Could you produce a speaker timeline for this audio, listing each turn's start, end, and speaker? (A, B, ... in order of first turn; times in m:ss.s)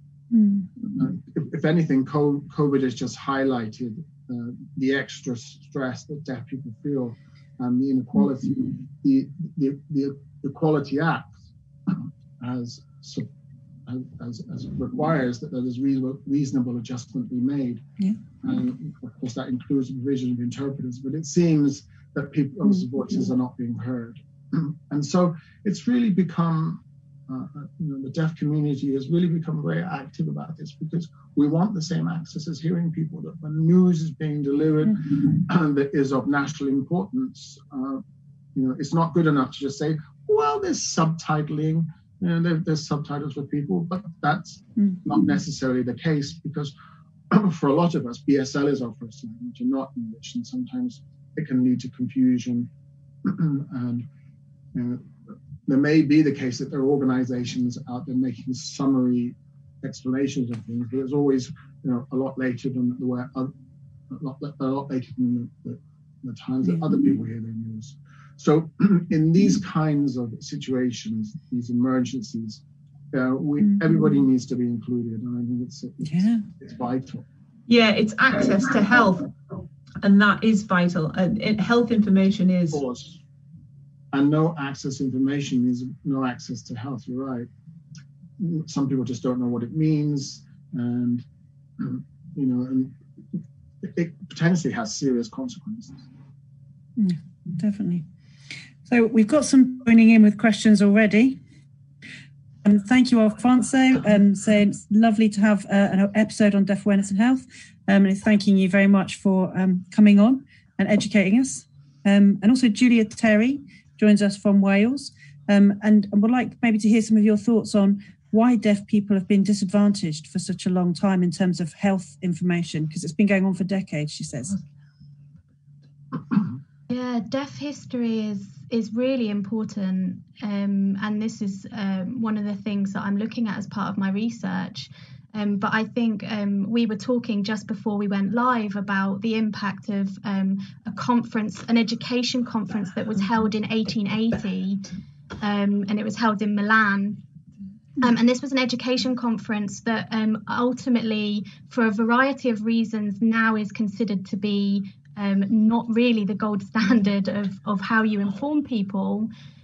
0:00.3-0:00.7 A
0:00.8-0:13.3 B
0:13.9-0:17.8 B
0:18.4-0:38.0 B
0:38.6-0:46.7 B
0:47.3-0:52.7 B
0:53.2-0:54.1 B
0:54.7-0:55.1 B
0:55.7-1:03.5 B
1:04.1-1:17.2 B
1:16.1-1:16.4 A
1:17.7-1:19.3 C
1:20.0-1:22.8 C
1:22.7-1:23.2 B
1:24.1-1:27.5 B
1:28.4-1:31.2 B
1:31.8-1:33.0 B
1:33.8-1:36.1 B
1:37.0-1:38.0 A
1:38.9-1:41.4 A
1:42.6-2:04.6 A
2:06.9-2:24.9 D
2:25.4-2:27.2 D
2:28.0-2:39.3 D